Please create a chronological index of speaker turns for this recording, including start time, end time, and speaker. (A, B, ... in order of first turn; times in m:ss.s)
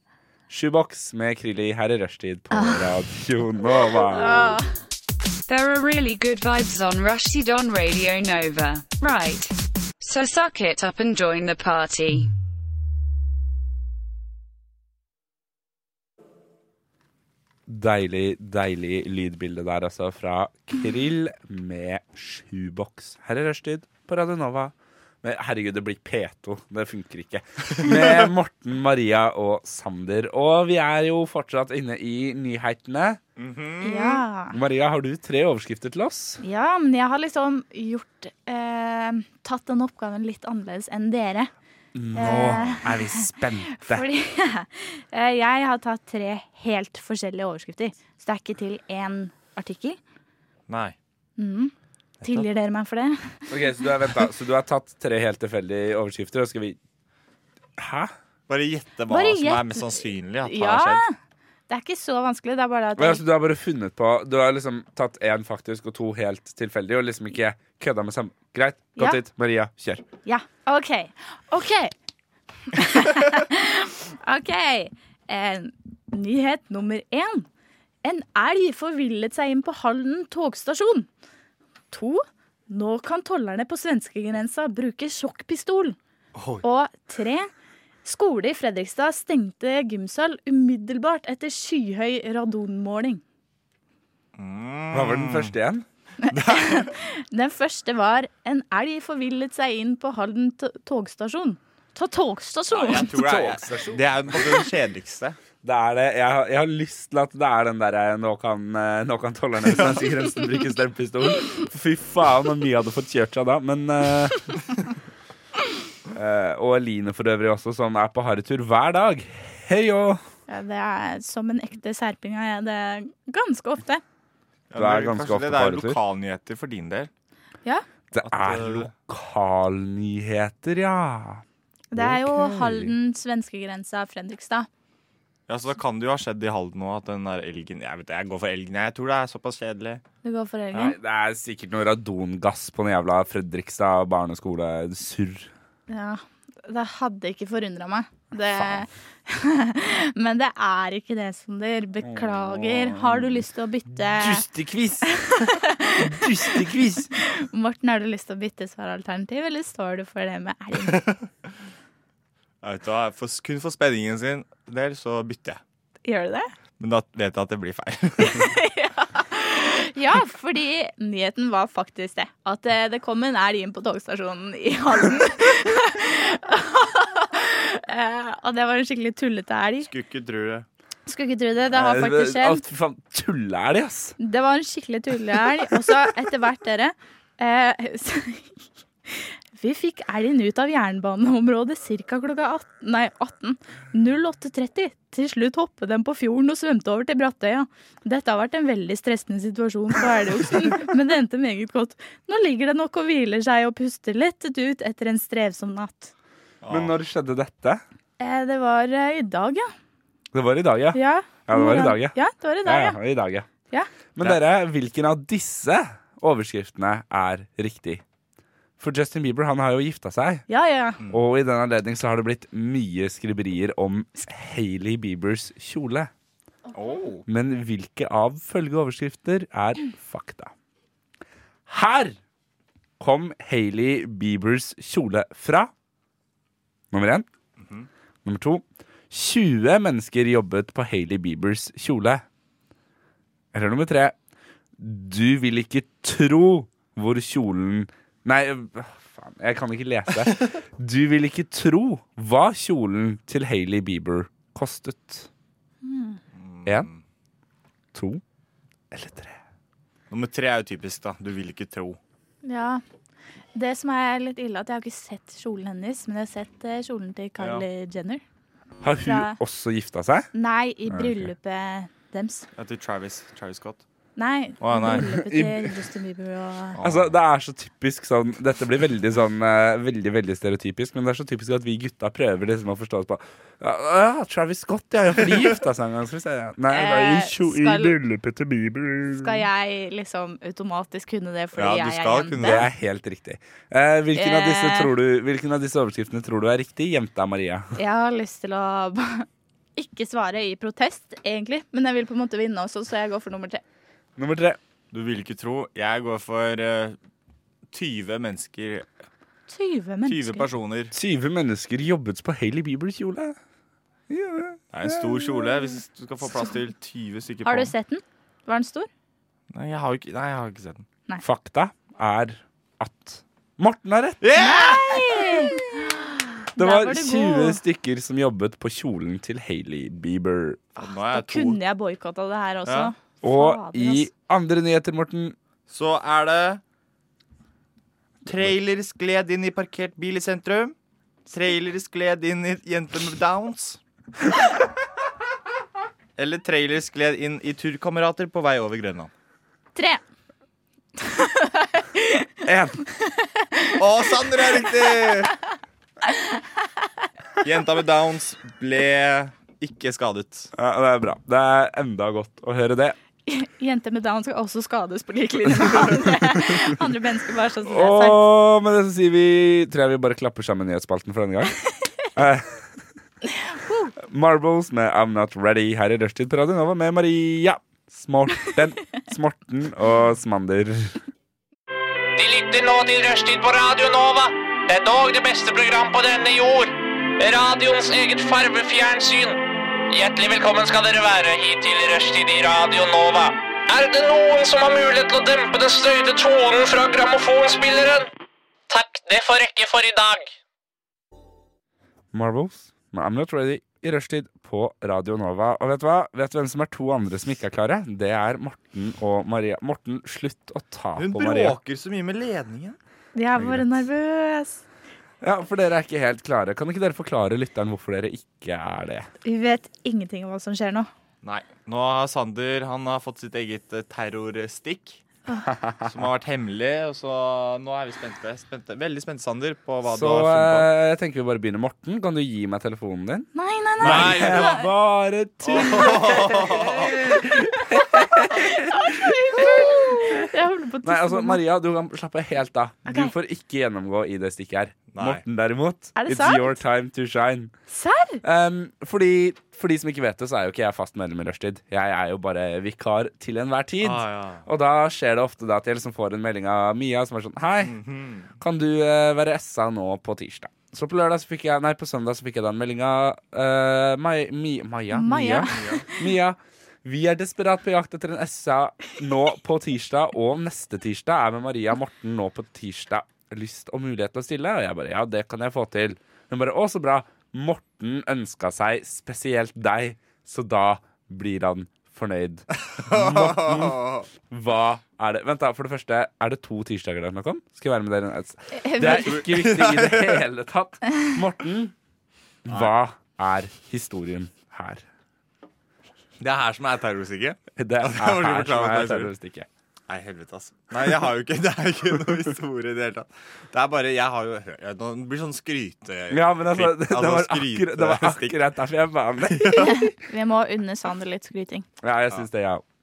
0:00.5-0:04.6 A
0:02.5-0:02.9 B
0:04.0-0:04.7 B
0:05.5-0:12.3 C
0:17.7-0:33.2 A
0:27.8-0:28.2 D
0:33.4-0:34.2 D
0:33.8-0:34.6 B
0:34.5-0:36.4 A
0:36.4-0:41.5 B
0:41.9-0:44.0 A
0:42.2-0:50.0 B
0:50.7-0:51.0 D
0:51.4-0:51.7 B
0:52.2-0:53.5 B
0:53.5-0:56.8 A
0:57.8-0:58.1 A
0:58.5-1:01.0 D
0:59.1-1:01.1 B
1:01.7-1:03.2 B
1:03.0-1:10.0 A
1:10.2-1:11.9 B
1:12.7-1:17.5 B
1:18.0-1:21.1 B
1:21.9-1:26.0 B
1:26.3-1:26.6 D
1:26.6-1:27.5 B
1:28.0-1:33.2 B
1:34.3-1:35.5 D
1:34.9-1:35.8 A
1:36.2-1:43.1 B
1:36.3-1:36.9 D
1:42.7-1:45.4 D
1:42.9-1:44.0 A
1:45.6-1:54.7 A
1:49.7-1:50.0 D
1:56.1-2:00.2 A
2:00.5-2:04.0 B
2:04.7-2:07.1 D
2:04.8-2:06.0 A
2:08.1-2:11.4 A
2:08.2-2:08.9 D
2:11.9-2:14.7 B
2:12.0-2:12.9 A
2:15.5-2:20.0 D
2:20.2-2:21.0 B
2:20.7-2:25.5 A
2:25.9-2:34.4 B
2:28.5-2:28.8 A
2:32.0-2:37.1 A
2:35.1-2:41.0 B
2:40.8-2:41.2 D
2:42.6-2:45.6 D
2:46.0-2:46.5 B
2:46.8-2:48.5 D
2:48.2-2:59.9 B
2:59.8-3:00.7 D
3:01.1-3:02.6 B
3:01.7-3:04.2 A
3:04.2-3:08.5 B
3:09.1-3:26.1 B
3:26.6-3:27.0 D
3:26.7-3:27.8 A
3:28.2-3:29.7 B
3:30.3-3:33.5 A
3:30.9-3:33.0 B
3:34.1-3:38.0 A
3:38.8-3:40.4 A
3:40.5-3:41.0 B
3:41.1-3:46.1 A
3:46.7-3:47.2 D
3:47.3-3:50.5 A
3:51.7-3:52.2 A
3:53.0-3:55.7 A
3:56.9-3:57.2 A
3:57.6-3:57.9 D
3:58.2-4:02.2 A
4:03.5-4:04.1 A
4:04.8-4:15.3 A
4:15.8-4:16.2 B
4:16.3-4:17.0 D
4:17.9-4:18.2 A
4:18.9-4:19.4 A
4:20.1-4:22.0 D
4:22.4-4:22.8 B
4:23.5-4:28.2 B
4:27.4-4:27.6 D
4:28.8-4:30.3 A
4:29.0-4:29.4 B
4:30.3-4:32.5 B
4:30.9-4:31.3 A
4:32.5-4:33.8 D
4:34.2-4:36.8 B
4:34.6-4:35.1 D
4:35.2-4:35.7 A
4:36.7-4:37.1 D
4:36.8-4:49.4 A
4:46.7-4:48.0 B
4:49.1-4:52.7 B
4:51.5-4:52.7 D
4:52.4-4:57.8 A
4:54.2-4:54.9 B
4:57.8-5:03.6 B
5:04.2-5:04.6 A
5:04.9-5:07.0 D
5:07.7-5:08.9 D
5:09.5-5:10.4 B
5:10.0-5:10.9 D
5:10.9-5:13.4 A
5:14.1-5:15.5 A
5:14.7-5:17.7 D
5:17.4-5:18.9 B
5:19.5-5:20.8 D
5:21.2-5:24.2 A
5:24.2-5:25.6 D
5:24.4-5:27.6 B
5:26.6-5:30.7 A
5:30.8-5:31.6 D
5:30.8-5:34.1 B
5:32.6-5:32.9 D
5:33.2-5:35.4 A
5:35.7-5:36.6 D
5:38.2-5:40.7 D
5:41.3-5:43.8 D
5:46.2-5:49.1 D
5:49.8-5:50.0 B
5:51.0-5:52.3 B
5:52.4-5:52.8 A
5:53.0-5:53.8 B
5:53.8-5:55.3 D
5:57.4-6:00.5 D
6:00.6-6:03.0 A
6:03.3-6:08.2 B
6:07.6-6:11.6 A
6:12.1-6:12.7 A
6:13.3-6:13.9 B
6:14.0-6:21.0 A
6:22.2-6:38.1 E
6:38.7-6:40.3 E
6:42.1-6:51.6 A
6:51.0-6:52.8 D
6:53.1-6:54.6 B
6:53.4-6:53.8 A
6:55.2-6:59.1 A
6:59.2-7:00.9 B
7:01.2-7:05.0 D
7:05.8-7:10.7 D
7:09.8-7:19.6 A
7:13.4-7:14.7 B
7:13.8-7:14.6 D
7:15.4-7:17.0 D
7:15.6-7:15.8 B
7:17.5-7:21.4 B
7:20.8-7:27.5 A
7:22.9-7:23.1 B
7:24.9-7:25.2 D
7:26.0-7:26.6 B
7:27.7-7:28.2 B
7:28.2-7:37.8 A
7:33.8-7:34.4 D
7:37.6-7:38.3 D
7:38.4-8:11.7 A
7:44.9-7:46.1 B
7:45.5-7:45.8 D
8:02.7-8:04.1 D
8:08.6-8:09.1 B
8:08.8-8:10.2 D
8:12.4-8:14.8 A
8:12.5-8:12.7 D
8:16.2-8:19.1 D
8:17.6-8:19.5 A
8:19.9-8:28.5 D
8:26.1-8:29.9 A
8:29.3-8:29.7 D
8:29.6-8:31.6 B
8:31.8-8:32.6 A